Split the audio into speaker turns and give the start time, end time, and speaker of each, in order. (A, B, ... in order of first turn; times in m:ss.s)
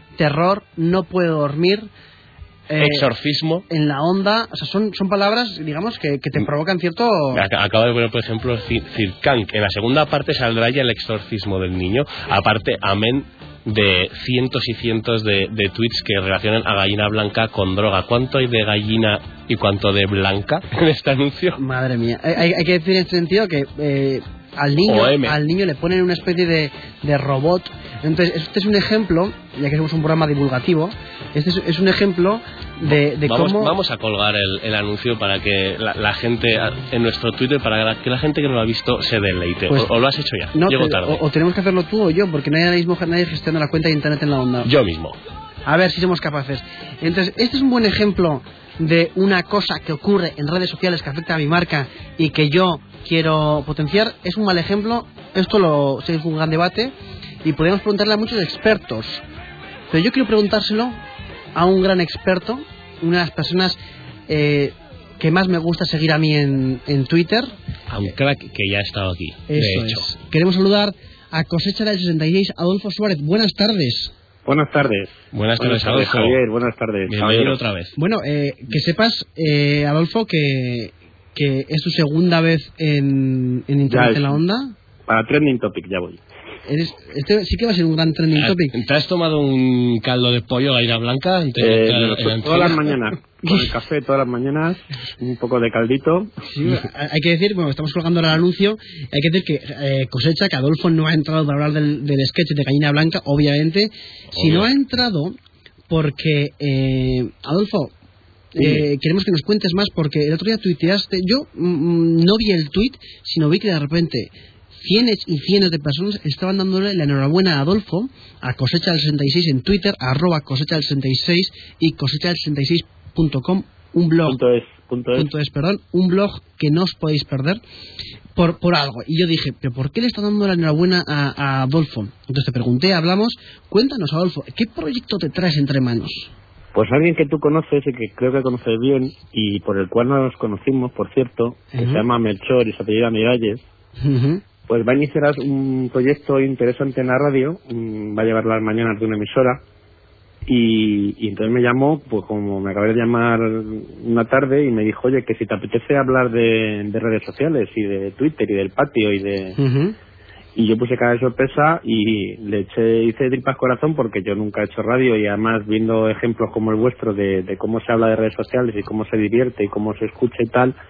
0:00.2-0:01.9 A
0:02.7-0:03.1 A
0:02.8-0:03.6 B
0:03.7-0:07.4 A
0:07.3-0:21.6 B
0:21.6-0:33.7 A
0:24.8-0:25.4 B
0:32.9-0:41.2 B
0:40.5-0:44.7 A
0:44.6-0:45.2 B
0:45.6-0:59.2 A
0:59.9-1:01.0 A
1:01.5-1:07.5 A
1:07.9-1:10.1 B
1:09.5-1:14.1 A
1:14.4-1:17.6 C
1:15.3-1:16.4 B
1:17.1-1:17.9 B
1:18.0-1:24.7 A
1:23.9-1:24.4 C
1:25.1-1:26.2 C
1:26.7-1:28.7 A
1:28.3-1:32.8 B
1:31.6-1:36.3 C
1:36.5-1:45.4 A
1:44.3-1:44.7 B
1:45.9-1:47.9 A
1:48.5-2:04.4 A
1:48.6-1:48.8 B
2:04.2-2:05.3 C
2:05.1-2:07.6 A
2:08.4-2:16.3 A
2:16.7-2:23.6 C
2:21.7-2:22.0 A
2:24.0-2:24.4 A
2:24.7-2:29.6 C
2:30.4-2:39.6 C
2:39.6-2:39.9 A
2:40.6-2:50.7 C